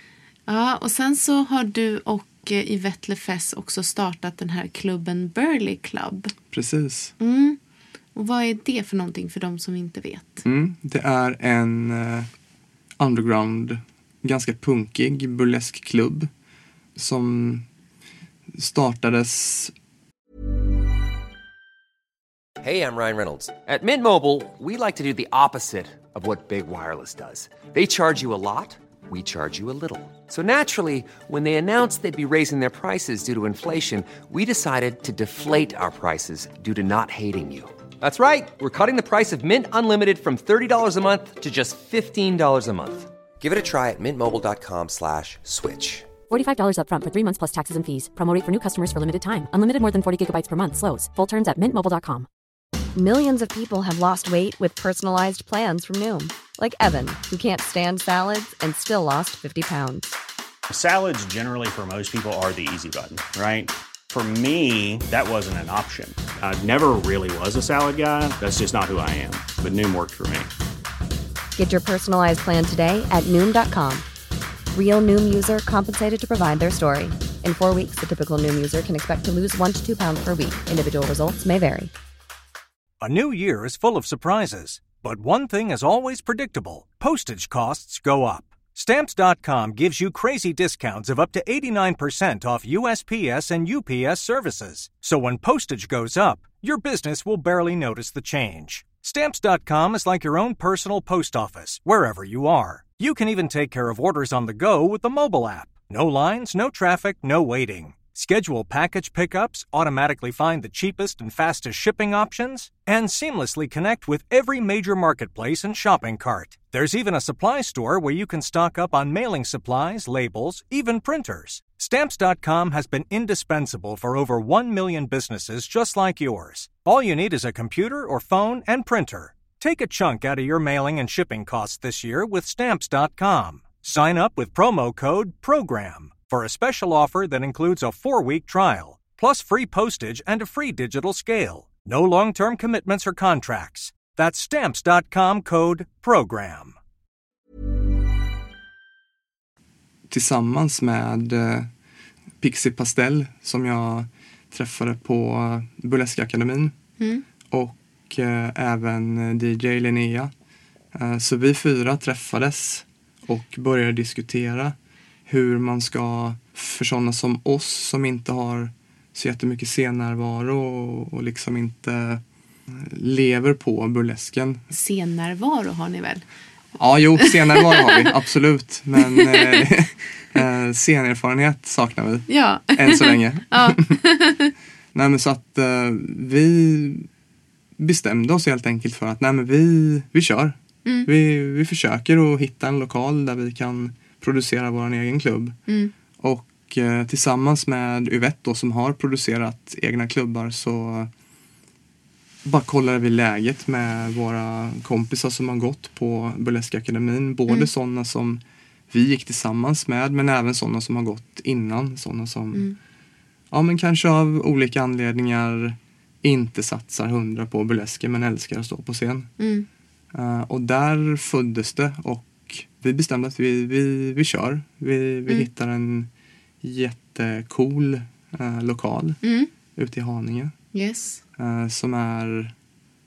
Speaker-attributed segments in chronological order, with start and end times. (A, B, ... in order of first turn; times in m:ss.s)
0:00.5-0:06.3 A
0:06.5-0:07.1 B
0:07.2-0:07.6 A
0:08.1-0:10.4 A
0:10.4-0:12.3 B
0:13.0-0:16.3 B
0:17.0-0:17.6 B
0:18.5-0:19.7 B
0:22.6-0:46.1 C
0:46.3-0:52.3 D
0:52.9-1:00.1 E
1:00.7-1:10.5 F
1:11.6-1:14.0 E
1:14.7-1:21.9 E
1:23.0-2:26.7 G
2:30.1-2:31.7 B
2:32.4-2:36.7 B
2:37.0-2:37.2 A
2:37.5-2:40.3 B
2:40.9-2:44.8 B
2:45.3-2:54.6 B
2:54.7-2:56.2 A
2:56.8-3:04.0 B
2:57.2-2:58.1 A
2:59.0-2:59.6 A
3:02.3-3:04.5 A
3:04.9-3:07.1 B
3:07.8-3:15.6 B
3:10.8-3:11.1 A
3:15.7-3:15.9 A
3:16.2-3:21.1 B
3:22.4-3:32.7 B
3:33.5-3:39.3 B
3:39.4-3:39.7 A
3:40.1-3:46.1 B
3:46.6-3:49.2 B
3:49.2-3:49.5 A
3:49.8-3:50.5 B
3:50.7-3:51.2 A
3:51.4-3:52.5 B